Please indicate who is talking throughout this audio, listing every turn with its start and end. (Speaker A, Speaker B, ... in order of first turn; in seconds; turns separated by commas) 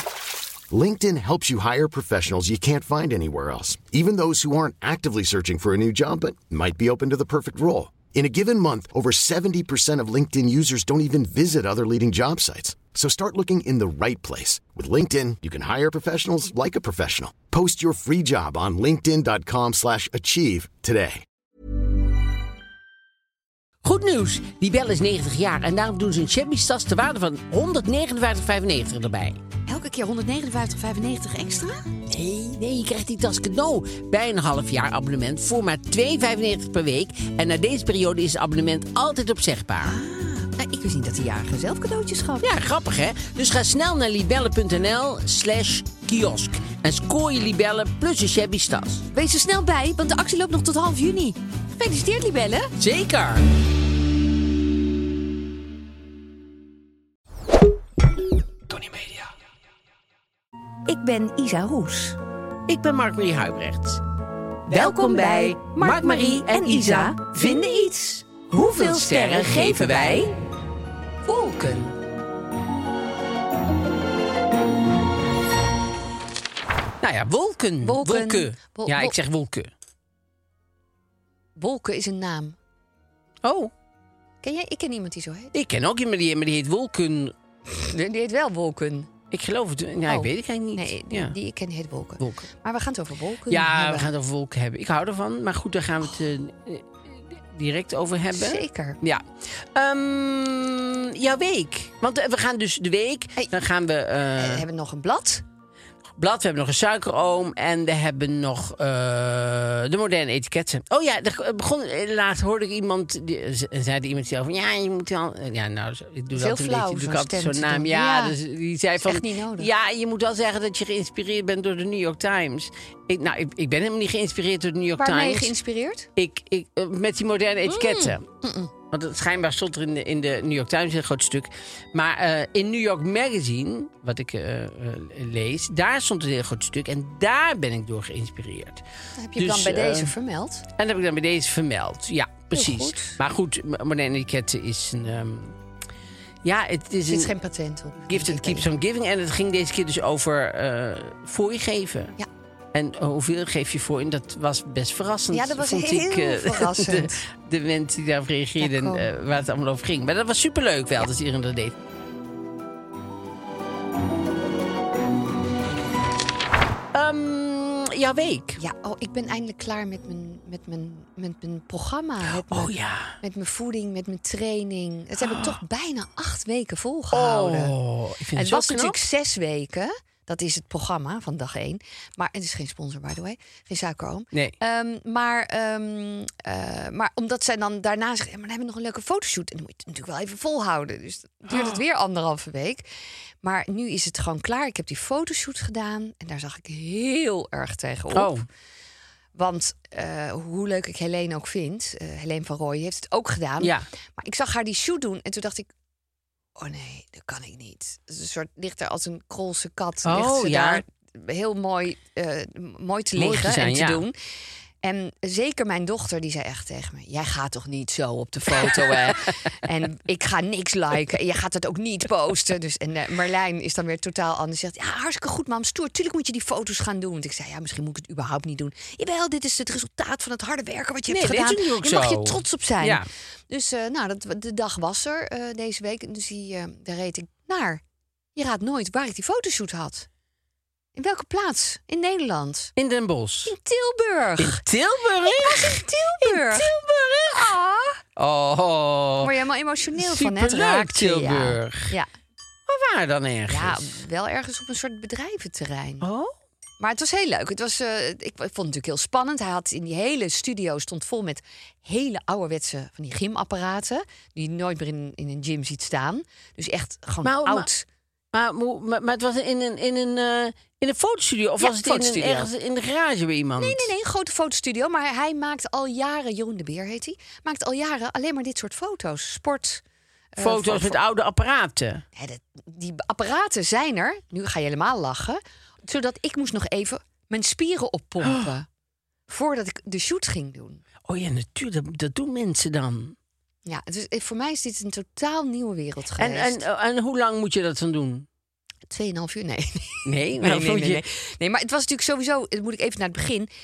Speaker A: 0.7-21.2, Speaker B: 23.8-29.4, Speaker C: 29.7-31.9, Speaker B: 32.1-40.0, Speaker C: 39.8-42.5, Speaker B: 42.4-49.0, Speaker C: 49.1-52.7, Speaker B: 52.8-53.5, Speaker C: 60.9-62.2, Speaker B: 62.7-64.0, Speaker B: 64.7-67.9, Speaker C: 64.7-70.3, Speaker B: 68.4-70.3, Speaker C: 71.3-71.8, Speaker B: 77.0-79.7, Speaker C: 77.8-79.1, Speaker C: 81.5-82.6, Speaker B: 83.4-83.7, Speaker C: 84.4-85.5, Speaker B: 85.5-87.3, Speaker C: 87.7-89.1, Speaker B: 89.3-91.3, Speaker C: 90.1-94.1, Speaker B: 92.2-92.5, Speaker B: 93.5-104.6, Speaker C: 98.3-99.0, Speaker C: 104.4-105.4, Speaker B: 106.2-125.5, Speaker C: 116.3-118.3, Speaker C: 119.0-119.7, Speaker C: 125.0-126.1, Speaker B: 126.2-128.2, Speaker C: 127.7-128.7, Speaker B: 128.9-138.8, Speaker C: 139.2-140.6, Speaker B: 139.4-140.1, Speaker B: 140.8-145.6, Speaker C: 142.5-143.2, Speaker B: 146.4-147.3, Speaker C: 147.1-148.7, Speaker B: 148.1-152.2, Speaker B: 152.7-161.7, Speaker C: 155.3-157.2, Speaker C: 158.6-159.1, Speaker B: 166.9-168.6, Speaker C: 168.6-172.7, Speaker B: 172.3-173.2, Speaker C: 173.2-177.7, Speaker B: 175.2-175.6, Speaker B: 177.1-178.9, Speaker C: 178.3-192.8, Speaker B: 191.5-191.8, Speaker C: 193.4-198.3, Speaker B: 198.1-198.4, Speaker C: 199.3-205.7, Speaker C: 206.6-214.1, Speaker B: 210.0-210.8, Speaker B: 213.2-214.0, Speaker C: 214.8-237.8, Speaker B: 218.5-219.2, Speaker B: 231.1-233.1, Speaker C: 238.3-240.1, Speaker C: 240.9-242.7, Speaker B: 242.8-243.5, Speaker C: 243.4-244.6, Speaker B: 244.4-247.5, Speaker C: 245.2-246.7, Speaker C: 247.3-248.0, Speaker B: 248.2-249.3, Speaker C: 249.2-252.1, Speaker B: 249.9-251.9, Speaker B: 252.7-253.9, Speaker C: 253.5-256.1, Speaker B: 256.0-256.3, Speaker C: 256.8-267.8, Speaker B: 267.2-267.7, Speaker B: 268.3-273.9, Speaker C: 271.6-272.5, Speaker C: 273.6-279.8, Speaker C: 280.3-281.0, Speaker B: 280.4-282.0, Speaker C: 282.1-288.7, Speaker B: 288.2-288.5, Speaker C: 289.3-290.8, Speaker B: 291.1-293.1, Speaker C: 293.6-296.6, Speaker B: 296.2-298.2, Speaker C: 298.9-303.5, Speaker B: 300.0-301.0